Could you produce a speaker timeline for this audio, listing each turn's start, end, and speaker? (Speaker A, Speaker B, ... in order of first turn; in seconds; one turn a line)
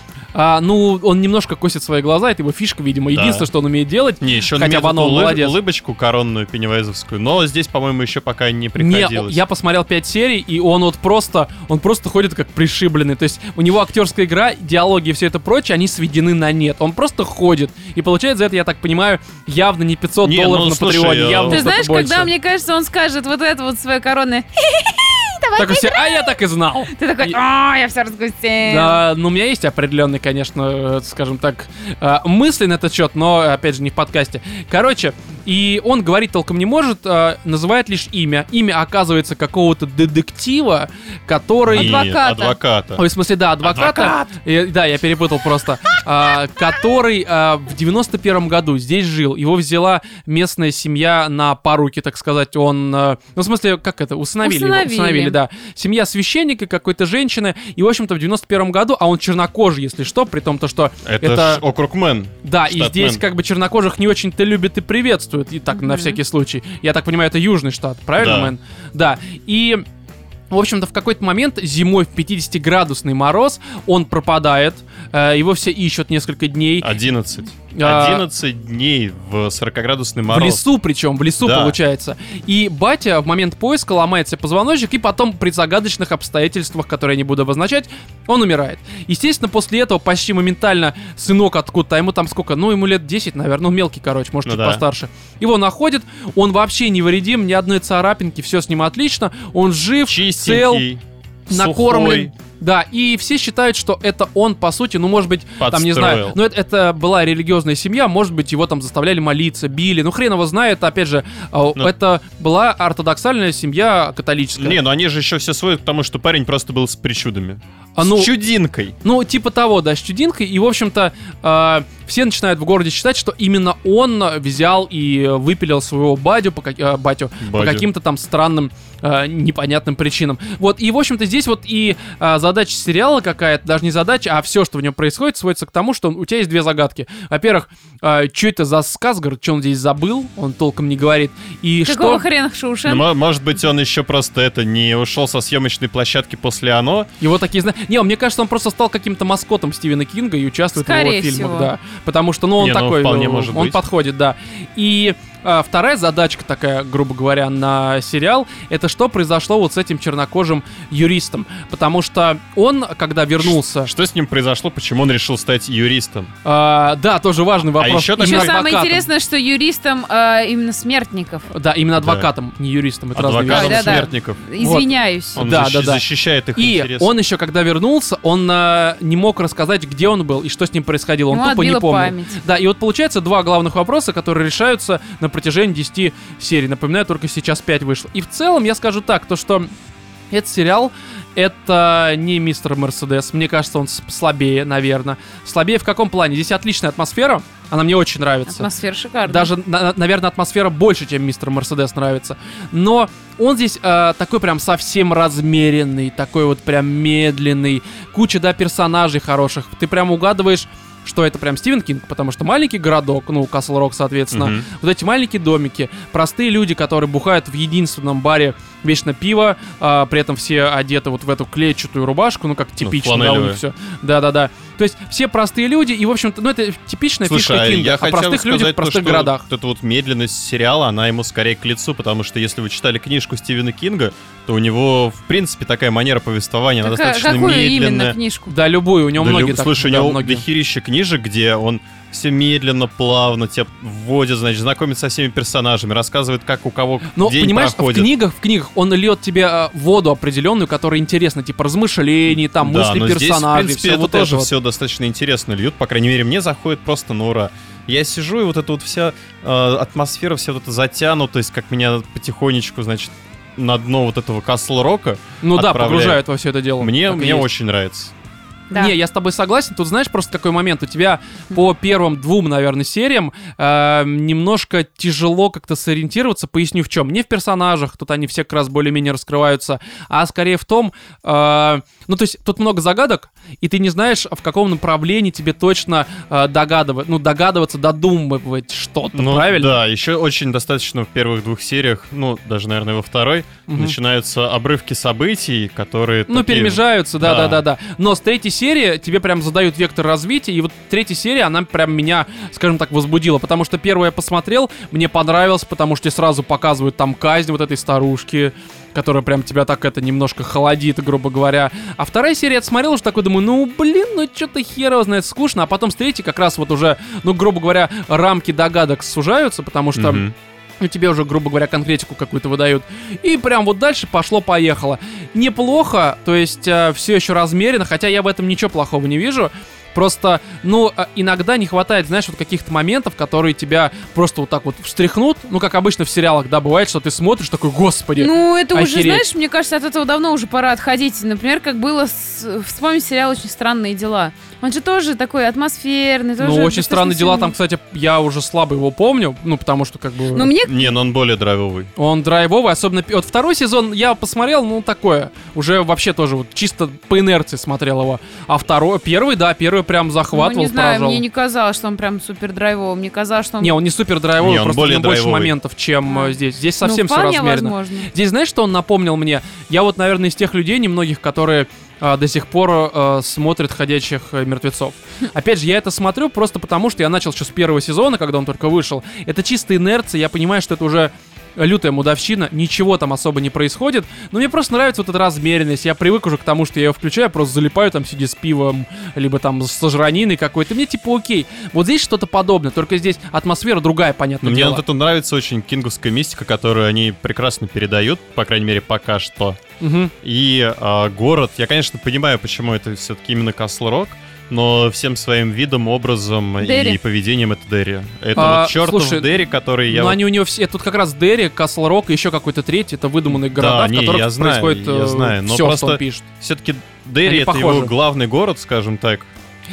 Speaker A: 0.3-5.5
Speaker B: 3.1-3.5
Speaker B: 4.2-9.4
Speaker A: 8.8-22.3
Speaker B: 20.2-21.8
Speaker C: 21.5-26.4
Speaker A: 25.6-27.4
Speaker C: 26.9-29.0
Speaker A: 28.7-42.1
Speaker B: 41.7-43.0
Speaker C: 41.7-42.6
Speaker A: 43.0-61.6
Speaker B: 43.6-44.2
Speaker C: 54.4-55.4
Speaker B: 61.0-63.2
Speaker A: 62.4-69.8
Speaker C: 65.7-66.2
Speaker B: 68.2-68.5
Speaker A: 70.5-76.9
Speaker B: 76.8-80.6
Speaker A: 77.7-78.3
Speaker A: 80.3-100.9
Speaker B: 81.4-81.8
Speaker B: 94.5-94.8
Speaker B: 100.1-102.3
Speaker A: 101.5-114.8
Speaker B: 105.6-106.4
Speaker B: 114.6-119.0
Speaker A: 118.0-118.3
Speaker A: 119.0-142.2
Speaker B: 127.4-127.9
Speaker C: 141.9-143.1
Speaker B: 142.9-147.1
Speaker A: 147.2-163.9
Speaker C: 150.8-151.7
Speaker B: 152.6-153.8
Speaker B: 163.4-166.3
Speaker A: 166.4-169.1
Speaker B: 167.8-168.6
Speaker C: 168.2-171.5
Speaker A: 171.5-176.0
Speaker B: 172.0-172.3
Speaker B: 173.1-174.4
Speaker C: 173.4-175.4
Speaker B: 175.3-177.1
Speaker A: 176.6-189.7
Speaker C: 181.3-182.4
Speaker A: 190.3-198.7
Speaker C: 198.5-199.5
Speaker A: 199.2-229.4
Speaker B: 214.3-214.7
Speaker B: 222.8-223.6
Speaker B: 227.3-238.2
Speaker C: 236.8-238.5
Speaker A: 238.5-240.4
Speaker B: 239.2-248.1
Speaker A: 247.1-254.5
Speaker B: 252.4-266.2
Speaker A: 265.4-267.5
Speaker B: 266.8-268.1
Speaker A: 268.7-289.8
Speaker B: 289.2-297.6
Speaker A: 293.7-293.9
Speaker A: 296.3-320.2
Speaker B: 319.9-320.3
Speaker A: 320.8-339.2
Speaker C: 338.2-347.5
Speaker A: 346.4-350.5
Speaker C: 350.3-350.8
Speaker B: 350.6-351.9
Speaker A: 351.9-361.2
Speaker C: 360.3-363.8
Speaker A: 363.6-394.8
Speaker B: 364.4-365.6
Speaker C: 366.1-368.1
Speaker B: 394.4-399.6
Speaker A: 399.8-400.1
Speaker B: 400.2-410.2
Speaker C: 406.6-407.0
Speaker A: 408.3-409.3
Speaker A: 409.9-416.3
Speaker B: 413.3-419.3
Speaker A: 417.2-417.9